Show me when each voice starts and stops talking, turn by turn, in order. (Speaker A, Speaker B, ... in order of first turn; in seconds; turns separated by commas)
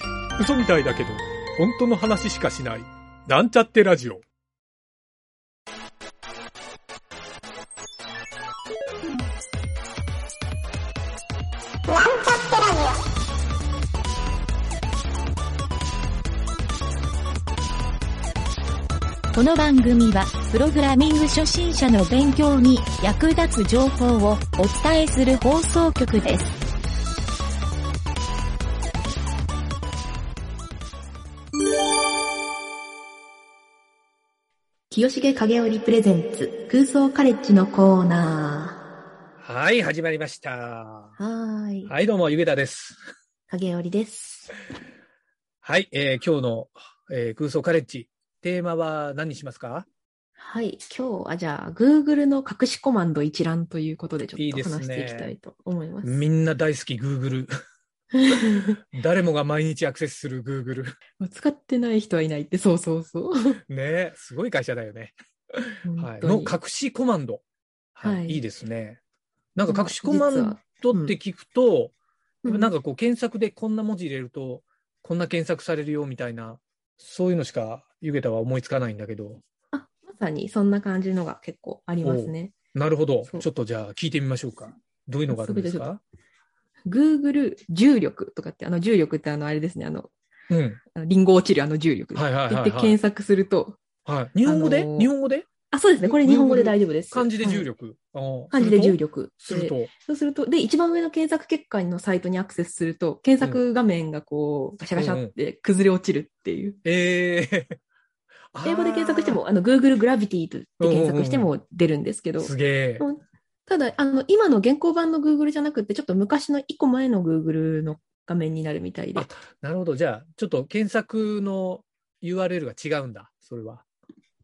Speaker A: 0.4-4.2, Speaker B: 19.3-26.6, Speaker C: 34.9-38.8, Speaker A: 39.4-41.1, Speaker C: 41.2-41.9, Speaker A: 41.9-43.0, Speaker C: 43.5-44.5, Speaker A: 45.6-49.9, Speaker C: 50.4-56.2, Speaker A: 54.4-55.3, Speaker A: 56.0-57.5, Speaker C: 58.1-58.8, Speaker A: 58.9-61.0, Speaker C: 61.2-63.6, Speaker A: 63.7-67.4, Speaker C: 65.8-66.6, Speaker A: 67.9-69.0, Speaker C: 68.0-68.4, Speaker A: 69.5-71.9, Speaker C: 69.7-71.1, Speaker C: 72.4-72.7, Speaker A: 72.5-79.4, Speaker C: 79.7-82.5, Speaker A: 82.0-86.0, Speaker C: 85.3-85.9, Speaker C: 86.8-90.1, Speaker A: 90.5-90.8, Speaker C: 90.9-93.8, Speaker A: 92.1-93.0, Speaker A: 94.0-95.5, Speaker C: 94.4-95.1, Speaker C: 95.7-97.7, Speaker A: 96.0-99.9, Speaker C: 98.5-106.8, Speaker A: 105.0-105.3, Speaker A: 106.8-107.8, Speaker A: 108.5-109.4, Speaker C: 108.6-119.3, Speaker A: 110.8-111.5, Speaker A: 112.4-113.0, Speaker A: 119.1-123.8